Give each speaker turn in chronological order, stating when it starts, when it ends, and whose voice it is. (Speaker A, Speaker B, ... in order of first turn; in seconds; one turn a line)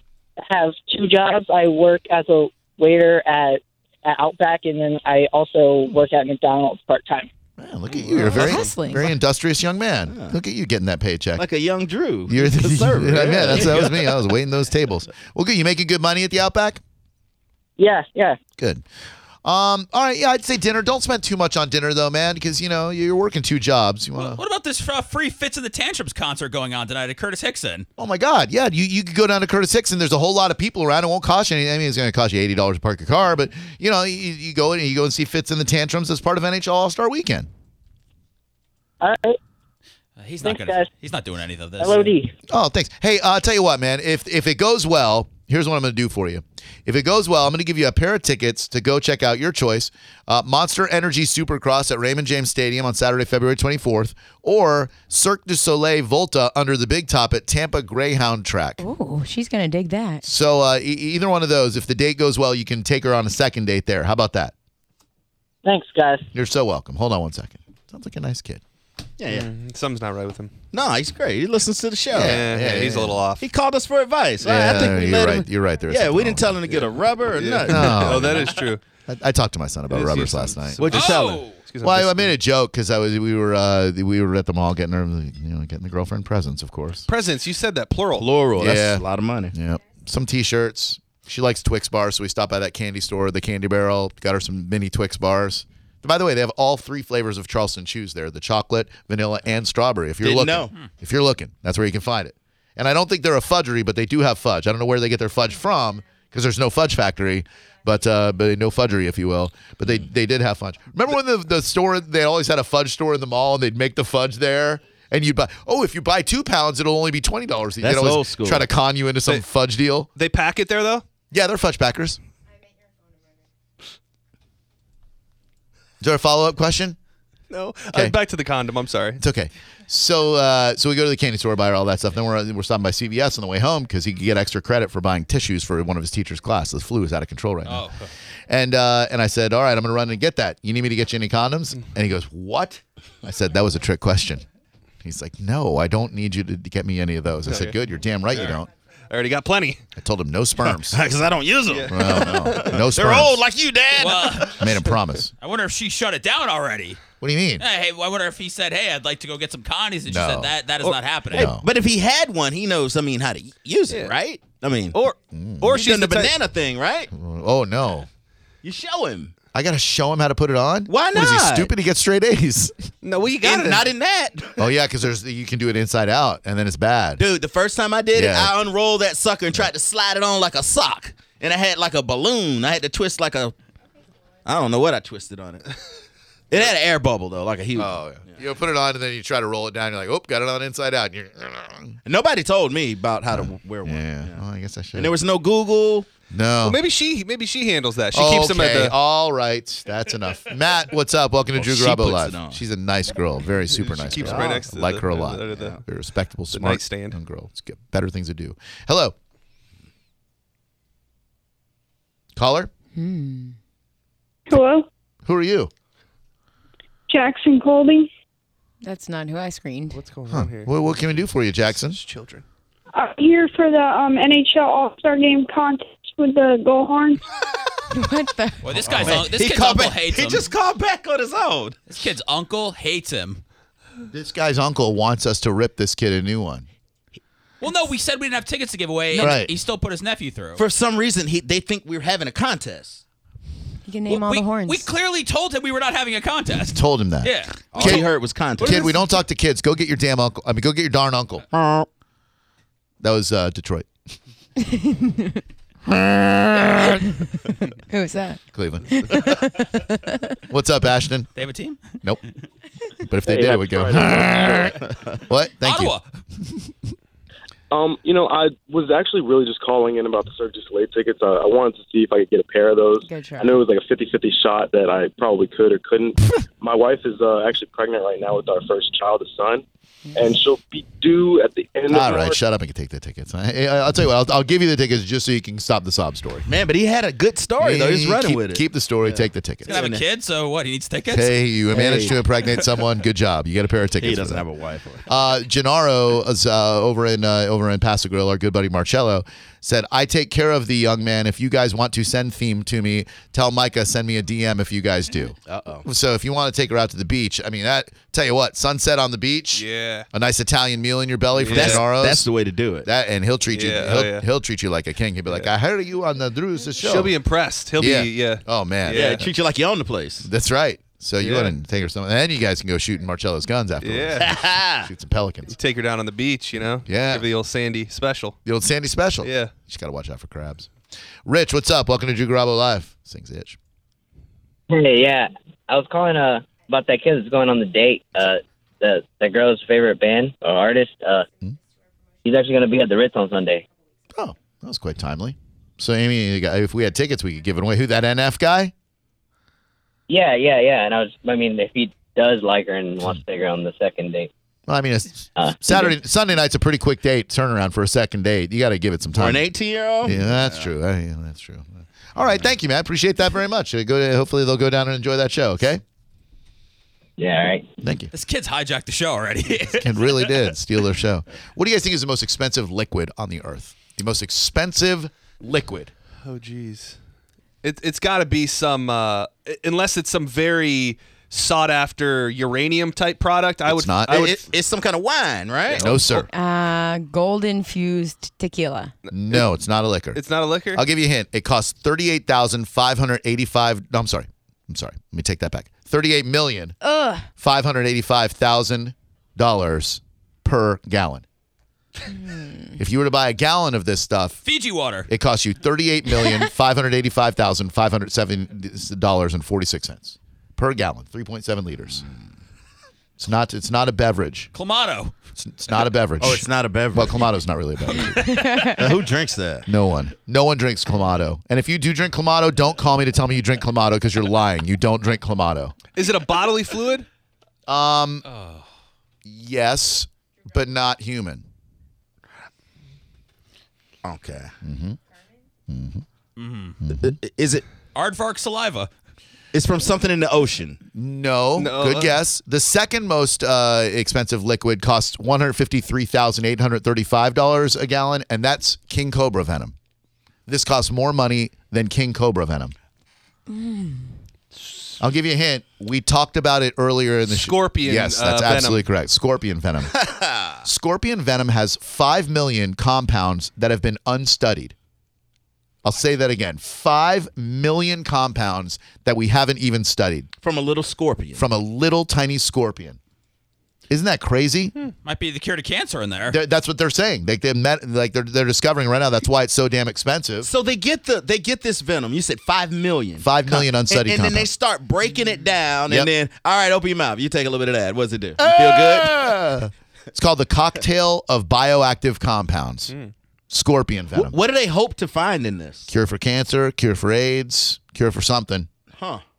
Speaker A: 0.4-7.3
Speaker B: 7.6-11.5
Speaker C: 8.1-9.1
Speaker D: 10.1-10.4
Speaker D: 11.4-14.2
Speaker B: 12.3-16.8
Speaker A: 17.8-18.4
Speaker B: 18.6-18.9
Speaker B: 19.4-24.4
Speaker E: 24.2-27.9
Speaker B: 28.0-37.5
Speaker A: 39.0-39.4
Speaker E: 40.2-42.1
Speaker A: 40.4-40.9
Speaker A: 41.8-42.3
Speaker B: 42.5-58.8
Speaker C: 58.8-60.2
Speaker B: 60.2-64.5
Speaker A: 65.6-66.2
Speaker B: 66.3-68.6
Speaker D: 69.2-69.5
Speaker F: 69.3-70.5
Speaker D: 70.7-72.5
Speaker B: 72.1-73.2
Speaker F: 72.2-73.4
Speaker D: 73.4-78.6
Speaker B: 74.4-76.6
Speaker F: 77.3-78.8
Speaker B: 77.7-78.5
Speaker B: 79.1-81.0
Speaker F: 79.9-82.3
Speaker D: 80.8-81.5
Speaker E: 80.9-81.6
Speaker B: 81.8-87.1
Speaker F: 87.1-88.4
Speaker D: 88.1-89.5
Speaker B: 88.6-120.1
Speaker D: 100.2-100.7
Speaker D: 117.8-118.7
Speaker F: 120.1-121.0
Speaker B: 121.3-122.2
Speaker B: 126.0-127.0
Speaker F: 127.5-129.2
Speaker B: 129.2-137.9
Speaker E: 137.6-137.9
Speaker B: 138.5-144.4
Speaker B: 145.0-148.7
Speaker F: 147.5-147.8
Speaker F: 149.1-149.8
Speaker B: 150.0-151.0
Speaker D: 150.9-154.7
Speaker F: 151.7-152.7
Speaker B: 151.9-153.4
Speaker E: 154.0-154.7
Speaker B: 154.6-155.3
Speaker E: 155.4-157.0
Speaker B: 157.2-157.6
Speaker E: 157.6-161.5
Speaker B: 160.1-160.5
Speaker B: 161.3-161.7
Speaker D: 161.3-165.0
Speaker F: 163.9-164.2
Speaker F: 164.9-166.3
Speaker B: 165.3-165.8
Speaker D: 165.7-167.1
Speaker B: 167.1-168.1
Speaker D: 168.6-169.3
Speaker B: 169.5-172.9
Speaker D: 170.9-171.7
Speaker F: 173.0-173.9
Speaker D: 173.4-174.6
Speaker B: 174.6-177.2
Speaker D: 177.2-183.5
Speaker B: 178.1-178.5
Speaker D: 184.5-185.6
Speaker D: 186.5-188.0
Speaker B: 187.8-192.0
Speaker D: 192.1-194.4
Speaker B: 193.3-195.1
Speaker D: 194.9-196.1
Speaker B: 196.3-196.8
Speaker F: 196.6-198.9
Speaker B: 198.1-209.1
Speaker D: 201.5-202.6
Speaker D: 203.8-204.7
Speaker F: 204.0-205.8
Speaker F: 206.5-207.2
Speaker B: 212.4-212.7
Speaker C: 212.9-213.6
Speaker G: 214.5-214.9
Speaker B: 215.2-215.7
Speaker G: 217.1-218.1
Speaker C: 218.8-220.0
Speaker F: 219.9-221.2
Speaker B: 220.3-222.0
Speaker F: 221.8-222.4
Speaker G: 222.9-227.2
Speaker C: 227.9-228.8
Speaker E: 228.6-230.5
Speaker B: 228.7-229.3
Speaker D: 229.0-231.8
Speaker E: 231.9-233.4
Speaker B: 234.1-236.7
Speaker E: 237.6-240.6
Speaker B: 239.1-239.5
Speaker D: 240.6-243.0
Speaker C: 243.9-244.9
Speaker E: 244.1-248.0
Speaker B: 246.7-251.4
Speaker D: 247.7-248.9
Speaker D: 251.5-251.9
Speaker B: 253.0-253.9
Speaker C: 254.6-255.4
Speaker B: 255.9-256.7
Speaker C: 257.9-260.4
Speaker B: 258.5-259.3
Speaker B: 260.5-261.3
Speaker E: 261.4-262.0
Speaker B: 263.1-265.9
Speaker H: 263.2-264.8
Speaker E: 265.6-266.0
Speaker H: 267.7-279.6
Speaker C: 273.0-273.6
Speaker C: 280.1-280.4
Speaker H: 280.1-282.4
Speaker B: 281.9-286.5
Speaker D: 286.5-290.0
Speaker B: 287.6-289.7
Speaker E: 289.7-291.3
Speaker B: 291.1-294.5
Speaker D: 291.7-292.1
Speaker D: 294.0-295.0
Speaker B: 295.1-312.3
Speaker D: 305.5-305.9
Speaker F: 309.6-310.1
Speaker F: 311.4-311.9
Speaker D: 311.4-312.9
Speaker B: 312.8-317.1
Speaker F: 313.5-314.2
Speaker F: 316.8-319.2
Speaker B: 317.8-319.3
Speaker D: 318.9-320.3
Speaker B: 320.2-325.5
Speaker F: 321.2-321.5
Speaker F: 323.8-324.2
Speaker D: 324.2-324.9
Speaker F: 325.5-328.4
Speaker B: 326.9-327.2
Speaker B: 328.5-330.7
Speaker F: 329.2-329.5
Speaker B: 331.2-333.6
Speaker I: 334.7-341.3
Speaker I: 342.2-343.6
Speaker B: 344.1-348.7
Speaker I: 350.1-354.3
Speaker B: 354.7-359.4
Speaker I: 355.4-355.9
Speaker D: 359.1-360.7
Speaker B: 360.0-365.8
Speaker I: 367.2-367.7
Speaker B: 367.8-368.1
Speaker E: 368.1-370.0
Speaker B: 369.7-375.9
Speaker F: 376.2-377.0
Speaker F: 377.6-384.4
Speaker B: 383.7-384.3
Speaker D: 384.1-386.2
Speaker B: 385.7-386.3
Speaker C: 386.3-388.9
Speaker F: 389.1-389.4
Speaker B: 389.1-390.2
Speaker F: 390.1-390.8
Speaker B: 390.7-396.8
Speaker C: 396.8-397.3
Speaker B: 397.4-401.2
Speaker C: 402.1-402.8
Speaker B: 402.8-404.4
Speaker E: 404.4-405.1
Speaker B: 405.1-412.1
Speaker C: 406.1-406.5
Speaker B: 413.2-414.5
Speaker E: 414.5-415.1
Speaker B: 415.4-418.4
Speaker D: 416.2-417.2
Speaker C: 418.0-419.0
Speaker D: 418.7-419.7
Speaker B: 419.7-425.8
Speaker F: 425.9-427.1
Speaker B: 427.7-428.2
Speaker E: 428.3-428.6
Speaker B: 429.2-431.4
Speaker D: 434.0-434.5
Speaker B: 434.6-435.0
Speaker B: 435.7-436.0
Speaker E: 436.4-436.8
Speaker B: 436.8-437.2
Speaker D: 436.9-437.6
Speaker E: 437.9-438.9
Speaker D: 439.5-440.8
Speaker B: 440.9-449.8
Speaker F: 441.6-442.1
Speaker B: 450.5-452.8
Speaker C: 453.5-454.1
Speaker B: 455.0-460.0
Speaker F: 457.3-458.8
Speaker D: 459.9-460.6
Speaker B: 460.6-464.8
Speaker B: 465.8-470.3
Speaker D: 470.4-471.4
Speaker B: 471.4-473.0
Speaker B: 473.9-474.7
Speaker E: 475.0-476.4
Speaker B: 476.2-480.5
Speaker D: 480.4-489.2
Speaker B: 483.2-484.5
Speaker B: 488.4-492.9
Speaker B: 493.5-494.4
Speaker D: 494.1-495.9
Speaker B: 495.9-498.7
Speaker D: 498.9-499.2